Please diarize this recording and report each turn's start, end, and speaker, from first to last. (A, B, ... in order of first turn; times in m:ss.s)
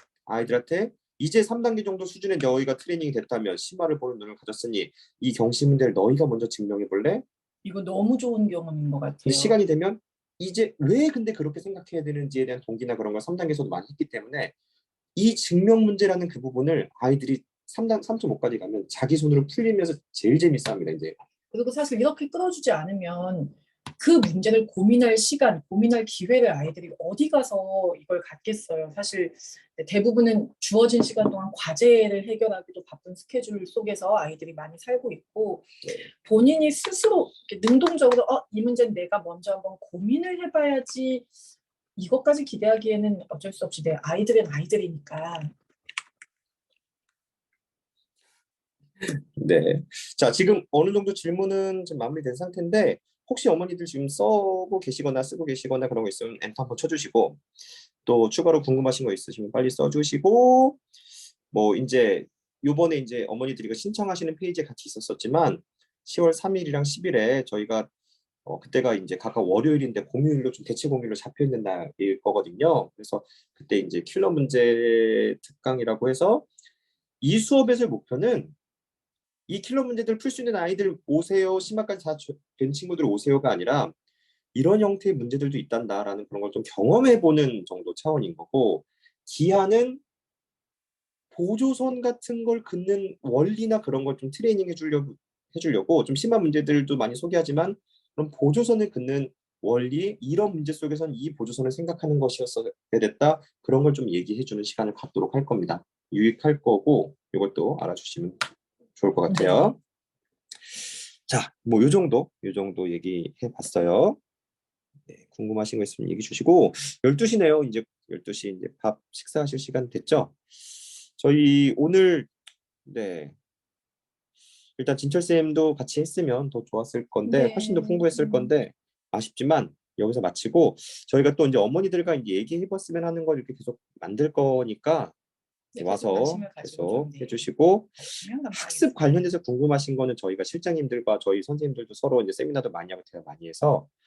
0:00.3-0:07.2 A
0:07.6-0:09.6 B
0:09.2-0:14.5 A
0:15.2-0:21.2 A
0:21.5-0:41.3 B
0:42.0-0:45.5 B
0:49.0-0:57.4 A
0:58.0-1:00.8 A
1:01.5-1:07.9 A
1:08.4-1:16.4 A
1:17.2-1:18.5 A
1:19.5-1:23.9 A
1:24.5-1:30.0 A
1:31.3-1:48.4 A
1:49.0-1:49.8 A
1:49.3-1:49.8 B
1:50.7-1:54.2 A
1:55.1-2:00.4 A
2:01.2-2:02.3 A
2:02.8-2:03.3 A
2:04.8-2:15.1 A
2:07.2-2:08.5 B
2:15.7-2:19.2 B
2:15.8-2:23.9 A